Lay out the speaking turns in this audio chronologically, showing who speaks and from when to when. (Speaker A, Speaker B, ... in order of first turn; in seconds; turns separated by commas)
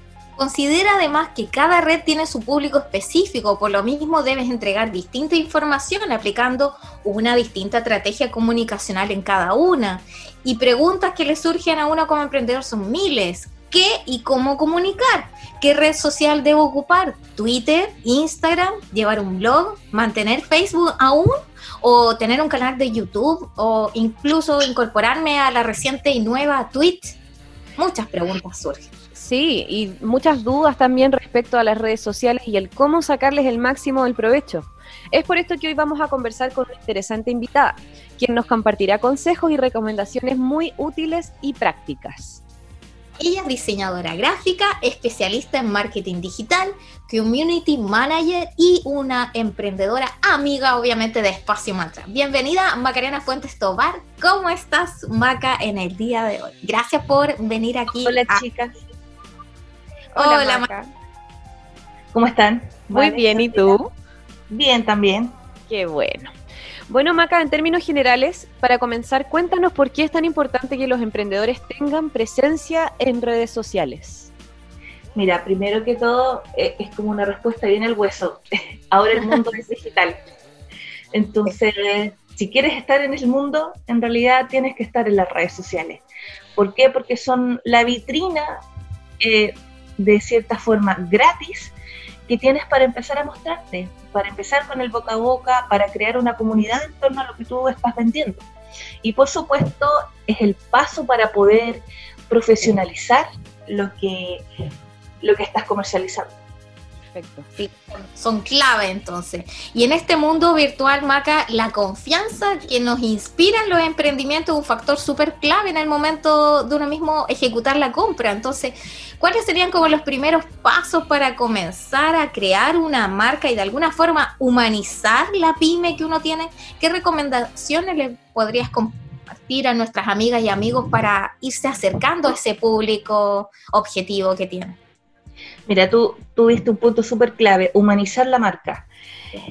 Speaker A: 0.4-27.2, Speaker A: 27.8-28.9, Speaker B: 29.1-42.4, Speaker A: 43.2-58.4, Speaker C: 57.9-58.7, Speaker B: 60.1-60.9, Speaker A: 60.1-60.7, Speaker C: 62.1-63.8, Speaker B: 62.9-63.9, Speaker C: 64.5-65.4, Speaker B: 65.7-66.3, Speaker B: 66.9-74.3, Speaker C: 75.1-80.2, Speaker C: 81.1-86.0, Speaker C: 86.5-88.6, Speaker C: 89.2-91.7, Speaker C: 92.3-98.5, Speaker C: 99.0-104.4, Speaker C: 105.2-106.4, Speaker B: 107.0-107.5, Speaker A: 107.5-134.8, Speaker C: 135.7-138.9